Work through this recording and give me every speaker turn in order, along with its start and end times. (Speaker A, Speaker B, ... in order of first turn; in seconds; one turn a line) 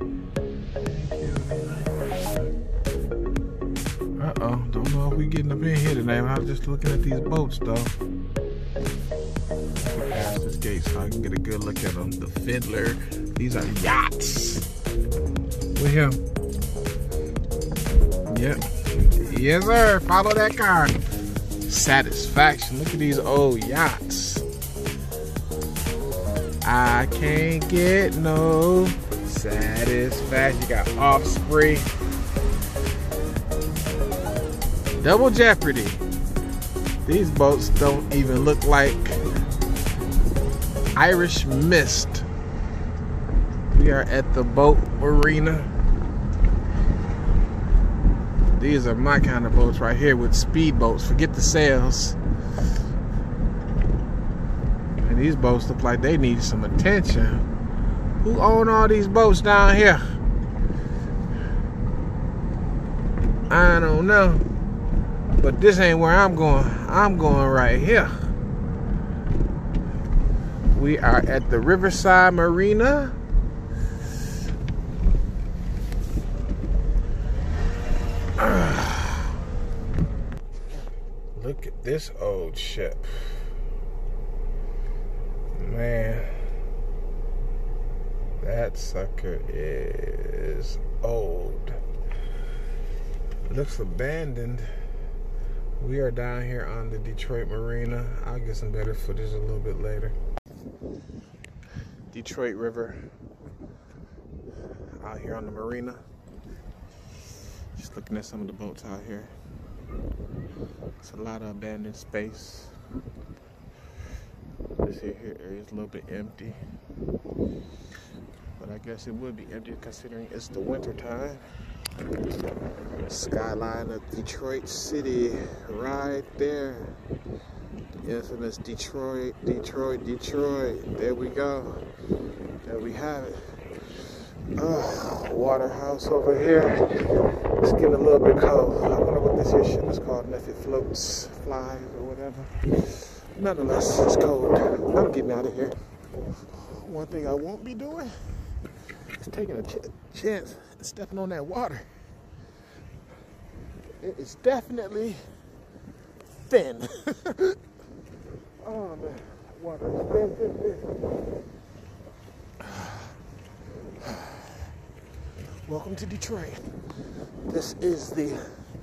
Speaker A: 0.8-2.5
Speaker A: 4.2-7.9
Speaker A: 9.8-14.7
Speaker A: 15.7-16.2
Speaker A: 18.3-21.0
Speaker A: 21.7-24.4
Speaker A: 26.6-31.9
Speaker A: 35.0-36.0
Speaker A: 37.0-39.2
Speaker A: 40.9-42.3
Speaker A: 43.7-45.7
Speaker A: 48.6-52.2
Speaker A: 55.0-57.4
Speaker A: 58.2-60.0
Speaker A: 63.5-64.5
Speaker A: 65.3-68.1
Speaker A: 70.7-73.2
Speaker A: 78.4-79.3
Speaker A: 81.3-83.1
Speaker A: 85.5-86.3
Speaker A: 88.4-91.8
Speaker A: 93.5-94.7
Speaker A: 95.8-100.2
Speaker A: 102.1-103.0
Speaker A: 105.0-106.0
Speaker A: 107.7-109.3
Speaker A: 111.0-112.7
Speaker A: 114.8-116.6
Speaker A: 118.6-121.4
Speaker A: 123.0-126.9
Speaker A: 128.0-131.8
Speaker A: 132.6-133.4
Speaker A: 134.6-136.8
Speaker A: 137.6-145.8
Speaker A: 146.5-148.1
Speaker A: 149.1-151.8
Speaker A: 154.0-155.2
Speaker A: 156.4-157.6
Speaker A: 158.6-160.8
Speaker A: 162.6-163.1
Speaker A: 164.0-164.4
Speaker A: 165.7-166.6
Speaker A: 167.5-168.5